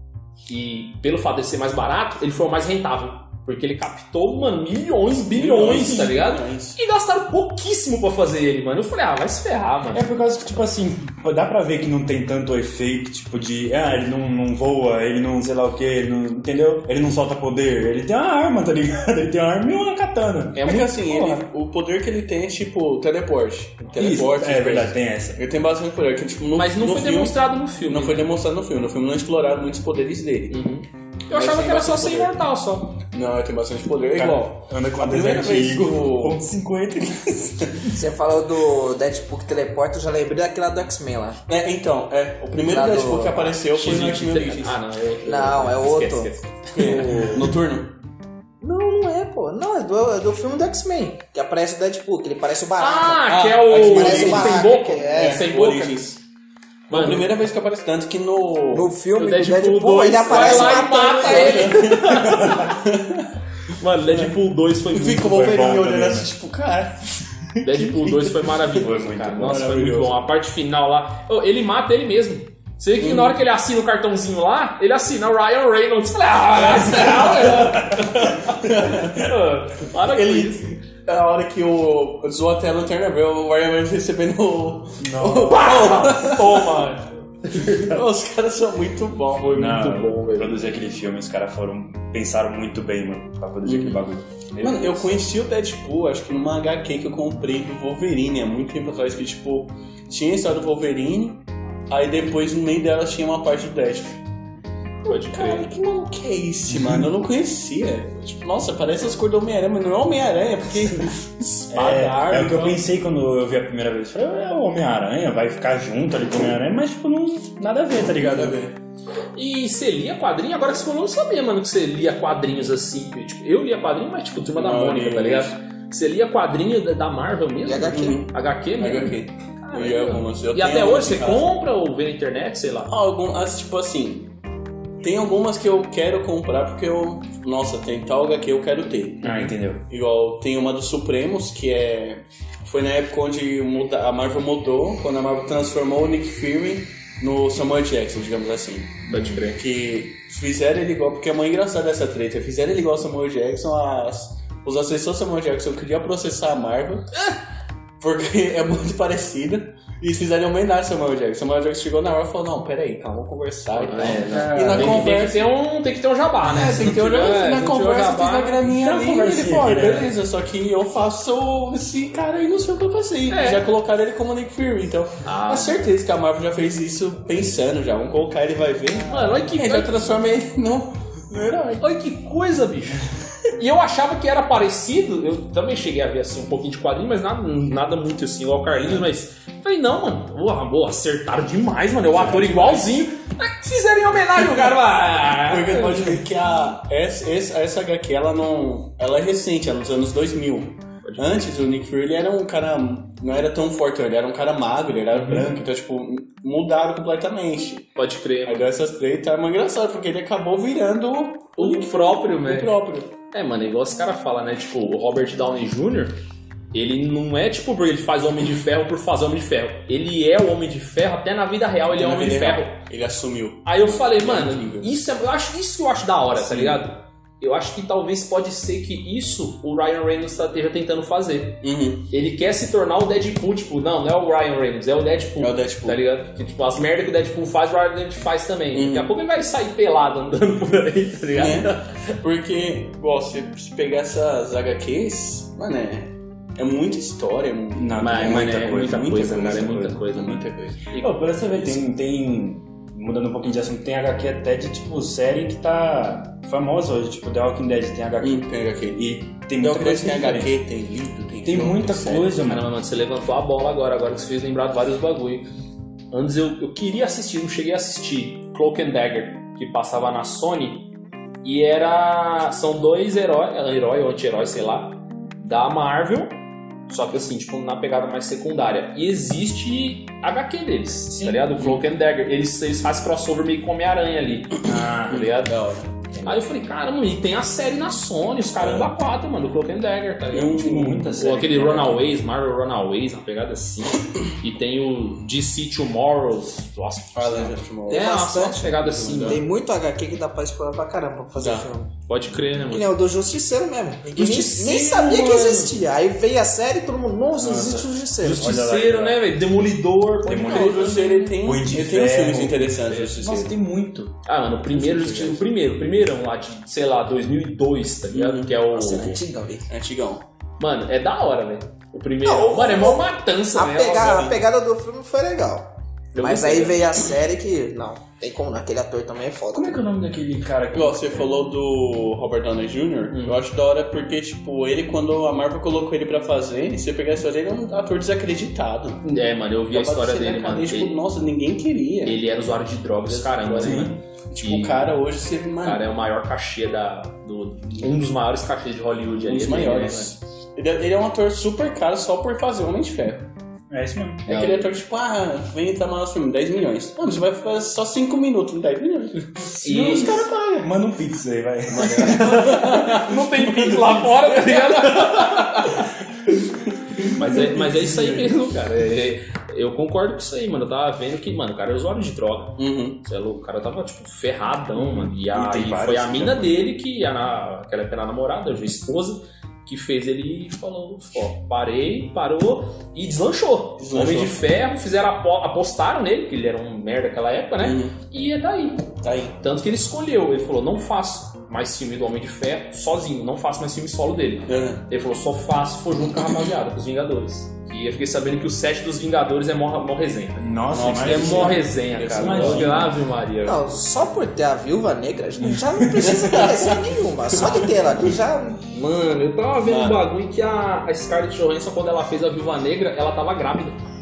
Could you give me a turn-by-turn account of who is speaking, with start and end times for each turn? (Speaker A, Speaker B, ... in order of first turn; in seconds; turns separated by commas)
Speaker A: 0.5-10.1, Speaker B: 5.2-6.8, Speaker C: 9.9-21.4, Speaker B: 20.6-30.6, Speaker C: 23.9-25.4, Speaker A: 26.5-28.3, Speaker A: 30.5-32.9, Speaker B: 31.3-32.4, Speaker B: 33.1-36.4, Speaker C: 34.1-37.9, Speaker D: 37.9-41.4, Speaker B: 41.5-44.8, Speaker D: 42.6-43.5, Speaker A: 43.5-47.4, Speaker D: 45.2-46.3, Speaker B: 46.7-47.9, Speaker D: 48.6-55.4, Speaker A: 52.8-56.0, Speaker B: 53.3-56.2, Speaker A: 56.9-57.3, Speaker B: 56.9-58.9, Speaker D: 58.7-61.9, Speaker A: 59.1-62.8, Speaker B: 60.2-63.3, Speaker C: 62.2-62.7, Speaker A: 63.7-65.4, Speaker B: 64.9-68.8, Speaker C: 65.2-66.3, Speaker A: 67.6-80.8, Speaker C: 68.7-70.2, Speaker B: 73.0-73.4, Speaker B: 76.6-77.8, Speaker C: 77.5-78.2, Speaker B: 78.5-79.3, Speaker B: 80.0-86.8, Speaker C: 85.0-86.0, Speaker A: 85.4-87.8, Speaker B: 87.6-90.0, Speaker C: 89.5-95.2, Speaker A: 89.6-90.6, Speaker B: 93.6-94.0, Speaker B: 94.6-104.2, Speaker A: 105.1-105.7, Speaker B: 105.1-112.8, Speaker C: 106.7-107.1, Speaker C: 111.7-118.6, Speaker B: 118.1-118.8, Speaker A: 119.4-132.9, Speaker B: 124.5-125.5, Speaker D: 127.6-128.2, Speaker B: 127.9-131.5, Speaker B: 132.9-134.3, Speaker B: 135.0-157.1, Speaker C: 139.2-139.8, Speaker A: 149.1-149.6, Speaker B: 158.0-165.5, Speaker A: 163.7-168.6, Speaker C: 164.0-165.1, Speaker B: 166.4-181.8, Speaker C: 168.7-170.1, Speaker A: 173.3-173.6, Speaker A: 175.2-175.8, Speaker A: 179.1-180.0, Speaker A: 181.8-183.0, Speaker A: 183.6-196.2, Speaker B: 192.1-193.0, Speaker B: 195.4-207.9, Speaker A: 201.0-201.4, Speaker A: 205.1-205.5, Speaker A: 207.9-208.7, Speaker B: 208.4-213.1, Speaker A: 211.6-212.7, Speaker A: 213.3-216.2, Speaker A: 216.7-222.8, Speaker B: 221.9-225.1, Speaker A: 223.6-242.1, Speaker B: 226.3-226.8, Speaker B: 231.6-232.1, Speaker B: 235.4-236.0, Speaker B: 238.7-239.1, Speaker B: 241.3-250.9, Speaker C: 247.7-250.4, Speaker A: 248.0-251.1, Speaker C: 251.0-260.6, Speaker B: 258.2-259.1, Speaker B: 259.6-262.4, Speaker C: 261.4-262.7, Speaker A: 262.4-265.5, Speaker A: 266.1-270.9, Speaker A: 271.4-285.6, Speaker C: 284.6-285.3, Speaker B: 285.2-285.9, Speaker C: 286.1-286.4, Speaker A: 286.2-299.4, Speaker B: 288.6-288.9, Speaker B: 290.3-291.6, Speaker C: 290.6-292.0, Speaker B: 297.1-299.4, Speaker D: 297.9-301.9, Speaker B: 301.4-301.7, Speaker A: 302.1-303.0, Speaker D: 302.7-308.6, Speaker A: 304.1-305.8, Speaker C: 307.3-309.2, Speaker A: 308.2-311.4, Speaker C: 310.2-315.4, Speaker B: 310.4-313.5, Speaker A: 314.2-319.2, Speaker B: 318.1-318.6, Speaker D: 318.7-319.7, Speaker B: 319.7-320.2, Speaker A: 320.6-324.3, Speaker D: 322.2-329.8, Speaker B: 324.0-324.4, Speaker A: 326.1-327.0, Speaker C: 329.5-331.3, Speaker B: 330.7-339.0, Speaker A: 333.1-333.4, Speaker A: 339.0-340.9, Speaker B: 339.7-342.2, Speaker A: 342.0-344.9, Speaker B: 343.1-345.9, Speaker C: 343.6-344.0, Speaker A: 345.6-350.1, Speaker B: 349.2-353.3, Speaker C: 353.7-354.2, Speaker B: 354.2-360.7, Speaker A: 354.3-354.7, Speaker C: 359.6-362.6, Speaker A: 359.6-360.3, Speaker B: 361.7-365.8, Speaker A: 361.8-365.9, Speaker C: 367.1-368.4, Speaker A: 367.1-388.9, Speaker B: 372.6-373.0, Speaker C: 374.7-376.7, Speaker B: 383.8-384.4, Speaker B: 387.6-388.0, Speaker B: 389.0-389.4, Speaker A: 389.4-403.6, Speaker B: 394.5-394.9, Speaker C: 400.4-402.9, Speaker B: 400.7-402.8, Speaker D: 403.4-408.6, Speaker C: 405.4-406.5, Speaker B: 406.0-407.9, Speaker A: 408.7-413.8, Speaker B: 409.6-410.0